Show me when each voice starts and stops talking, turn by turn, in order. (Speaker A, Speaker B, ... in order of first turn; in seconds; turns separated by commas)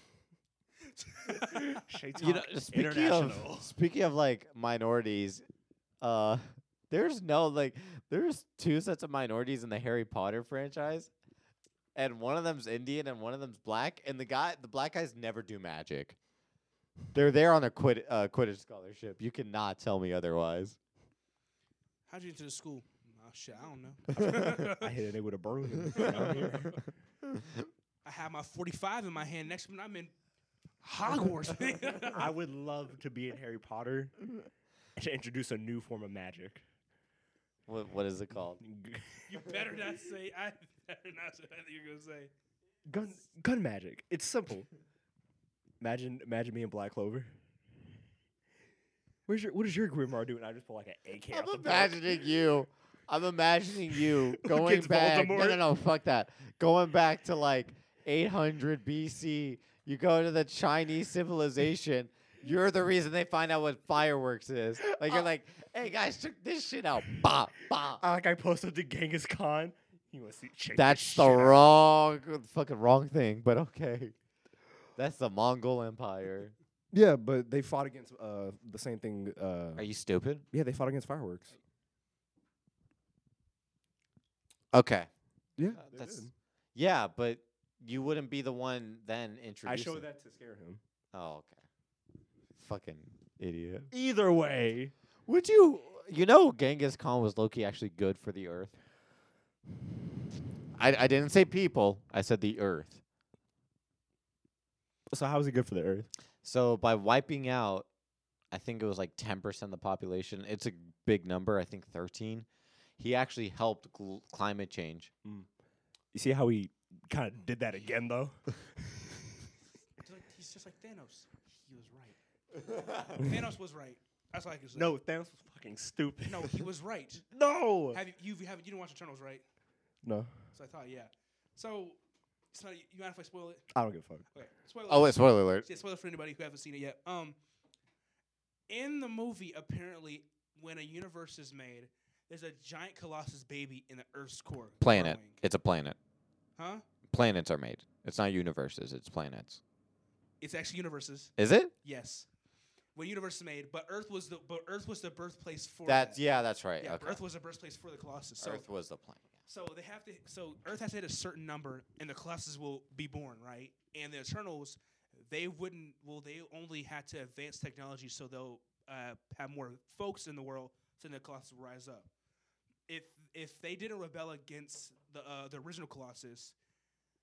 Speaker A: 0.8-1.9, Speaker B: 1.4-3.7, Speaker C: 2.2-5.4, Speaker C: 6.0-11.1, Speaker C: 11.9-16.2, Speaker C: 17.1-20.8, Speaker A: 22.1-25.0, Speaker B: 24.1-26.8, Speaker A: 25.9-26.6, Speaker A: 28.0-30.1, Speaker A: 30.8-32.3, Speaker B: 32.1-34.2, Speaker B: 35.0-36.6, Speaker C: 37.7-38.6, Speaker B: 38.6-39.3, Speaker A: 39.3-42.3, Speaker B: 42.9-44.7, Speaker B: 45.8-47.3, Speaker B: 49.3-52.1, Speaker C: 51.3-68.0, Speaker B: 54.0-55.6, Speaker B: 68.0-71.6, Speaker C: 70.7-74.2, Speaker C: 75.0-76.5, Speaker B: 76.9-79.8, Speaker C: 79.8-80.5, Speaker B: 80.5-81.6, Speaker C: 84.7-85.1, Speaker B: 85.6-86.3, Speaker C: 85.7-90.0, Speaker B: 89.7-90.8, Speaker C: 91.1-91.6, Speaker C: 92.6-93.9, Speaker B: 93.9-94.9, Speaker C: 95.3-98.7, Speaker C: 100.8-103.0, Speaker B: 105.1-106.1, Speaker C: 106.4-107.9, Speaker C: 108.5-112.5, Speaker C: 113.0-115.1, Speaker B: 116.1-118.4, Speaker A: 120.0-122.2, Speaker C: 122.7-123.2, Speaker A: 123.1-124.9, Speaker B: 124.8-126.7, Speaker A: 126.3-127.2, Speaker B: 127.3-128.0, Speaker A: 127.9-129.4, Speaker B: 130.0-130.3, Speaker A: 130.5-132.0, Speaker A: 132.5-133.7, Speaker B: 133.7-134.2, Speaker A: 134.3-137.4, Speaker C: 134.9-135.7, Speaker A: 138.7-145.4, Speaker C: 144.8-146.0, Speaker A: 146.6-146.8, Speaker C: 147.1-149.6, Speaker A: 150.4-151.3, Speaker C: 151.4-151.7, Speaker A: 151.8-152.3, Speaker A: 152.9-156.2, Speaker C: 155.9-157.2, Speaker A: 156.8-158.6, Speaker C: 158.4-159.3, Speaker A: 159.5-172.1, Speaker A: 172.9-176.6